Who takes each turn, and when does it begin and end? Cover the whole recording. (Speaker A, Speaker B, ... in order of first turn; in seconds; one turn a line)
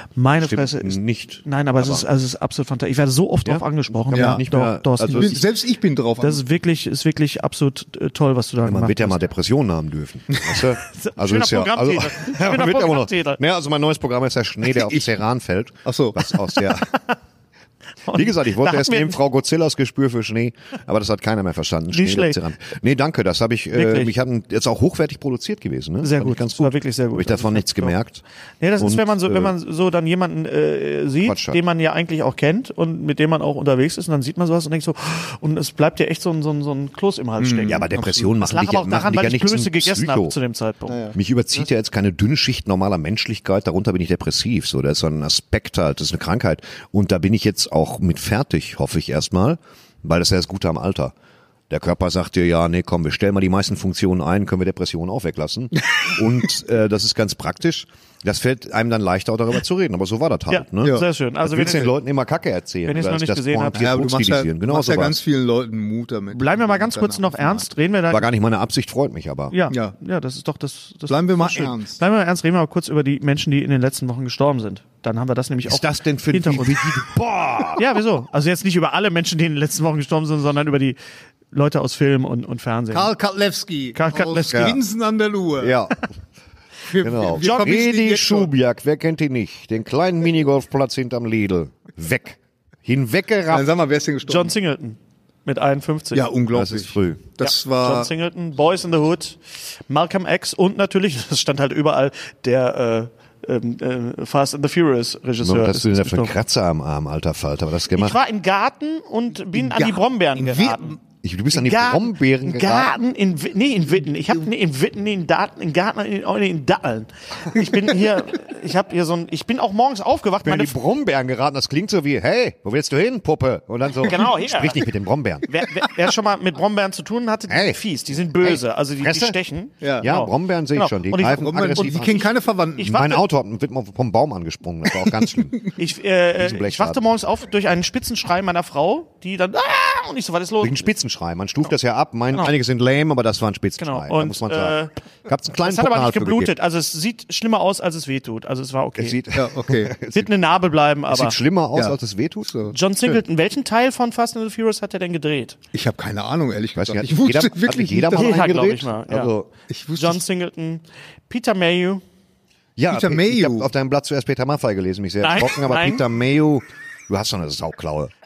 Speaker A: 0.2-5.5
Speaker B: 0.4-2.1
Speaker B: 3.5-5.4
Speaker C: 4.1-4.4
Speaker C: 5.1-6.4
Speaker A: 6.2-9.2
Speaker B: 8.6-16.9
Speaker A: 10.8-13.4
Speaker C: 15.8-16.3
Speaker A: 18.1-19.2
Speaker B: 18.1-28.2
Speaker A: 21.9-22.4
Speaker A: 23.7-24.1
Speaker A: 26.0-27.9
Speaker A: 28.6-41.0
Speaker B: 28.8-29.5
Speaker B: 31.2-31.6
Speaker C: 37.4-38.3
Speaker B: 37.6-40.4
Speaker C: 40.9-41.2
Speaker B: 41.1-51.1
Speaker B: 51.7-65.2
Speaker A: 60.5-61.9
Speaker A: 62.9-63.9
Speaker C: 63.7-67.7
Speaker A: 66.3-68.3
Speaker B: 68.1-69.5
Speaker A: 69.5-77.0
Speaker C: 71.1-72.0
Speaker B: 75.7-78.0
Speaker A: 77.8-81.0
Speaker A: 81.5-83.1
Speaker C: 82.9-85.8
Speaker A: 84.0-84.8
Speaker B: 84.5-84.8
Speaker B: 85.6-86.1
Speaker C: 86.9-88.5
Speaker B: 87.0-93.7
Speaker A: 87.4-87.7
Speaker C: 93.5-94.5
Speaker A: 94.3-96.3
Speaker C: 96.1-98.1
Speaker B: 96.5-97.3
Speaker A: 97.4-106.3
Speaker B: 105.4-108.2
Speaker A: 107.9-111.0
Speaker C: 109.5-111.0
Speaker B: 111.2-113.0
Speaker A: 111.5-120.8
Speaker B: 120.4-125.5
Speaker A: 124.0-124.8
Speaker A: 125.5-132.3
Speaker B: 127.5-129.4
Speaker C: 129.8-130.1
Speaker B: 130.0-132.3
Speaker C: 131.3-133.0
Speaker A: 132.8-133.2
Speaker B: 132.8-135.7
Speaker A: 135.8-140.9
Speaker B: 136.4-137.0
Speaker B: 140.6-146.5
Speaker A: 143.8-144.9
Speaker A: 145.6-149.2
Speaker B: 149.0-150.3
Speaker C: 149.3-149.9
Speaker A: 150.1-151.4
Speaker B: 151.1-153.2
Speaker C: 151.7-152.8
Speaker A: 152.7-155.6
Speaker C: 155.7-158.4
Speaker B: 156.8-159.5
Speaker A: 158.1-159.3
Speaker C: 159.7-160.2
Speaker A: 160.0-162.0
Speaker B: 162.8-168.1
Speaker C: 162.9-163.7
Speaker A: 165.2-166.0